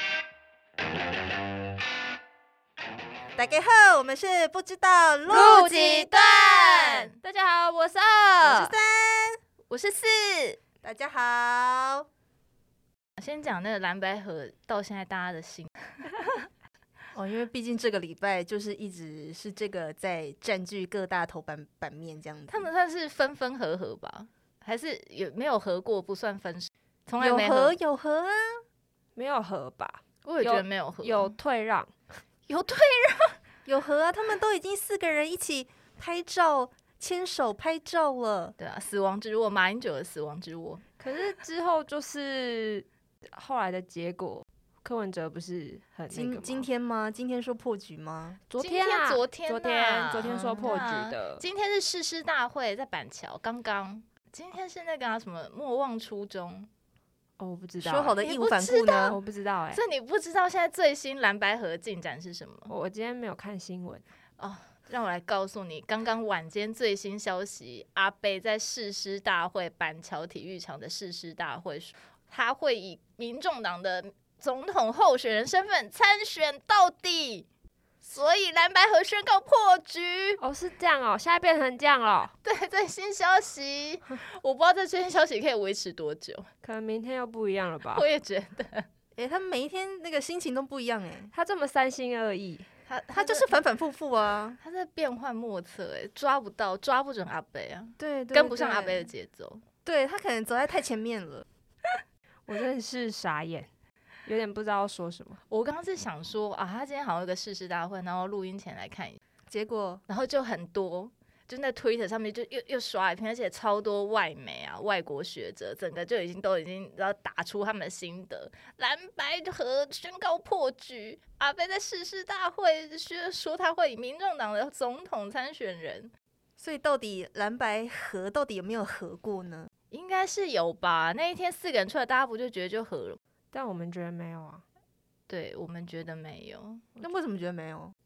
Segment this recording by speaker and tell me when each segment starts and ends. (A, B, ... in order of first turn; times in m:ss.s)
0:03.4-0:05.7 A
0:05.3-0:07.1 B
0:05.3-0:08.7 C
0:08.4-0:09.4 A
0:09.7-0:10.6 B
0:10.8-0:12.1 A
0:13.2-0:16.1 B
0:17.1-0:22.7 A
0:22.5-0:27.8 B
0:27.2-0:28.6 A
0:29.2-0:31.9 C
0:30.2-0:31.4 B
0:32.5-0:33.4 B
0:33.7-0:38.6 A
0:38.6-0:40.8 B
0:41.0-0:46.7 C
0:46.1-0:48.4 A
0:48.5-0:51.4 C
0:48.6-0:56.7 B
0:50.2-0:50.8 A
0:57.4-0:58.2 C
0:57.8-0:59.2 A
0:58.2-0:59.2 B
0:59.1-0:59.8 C
0:59.7-1:02.7 B
1:02.7-1:04.0 C
1:04.4-1:17.5 B
1:18.0-1:20.4 B
1:20.4-1:22.3 C
1:22.4-1:26.5 B
1:26.6-1:28.1 C
1:27.9-1:28.9 B
1:29.2-1:31.3 A
1:31.3-1:32.7 C
1:32.9-1:33.6 B
1:33.2-1:34.6 A
1:34.6-1:39.6 B
1:38.0-1:39.1 A
1:39.8-1:41.5 A
1:42.5-1:43.7 C
1:44.2-1:45.4 C
1:45.5-1:49.2 B
1:49.5-1:50.0 A
1:50.1-2:06.1 B
2:06.6-2:09.7 A
2:09.9-2:13.2 B
2:13.5-2:14.6 C
2:15.3-2:16.8 B
2:17.0-2:17.9 A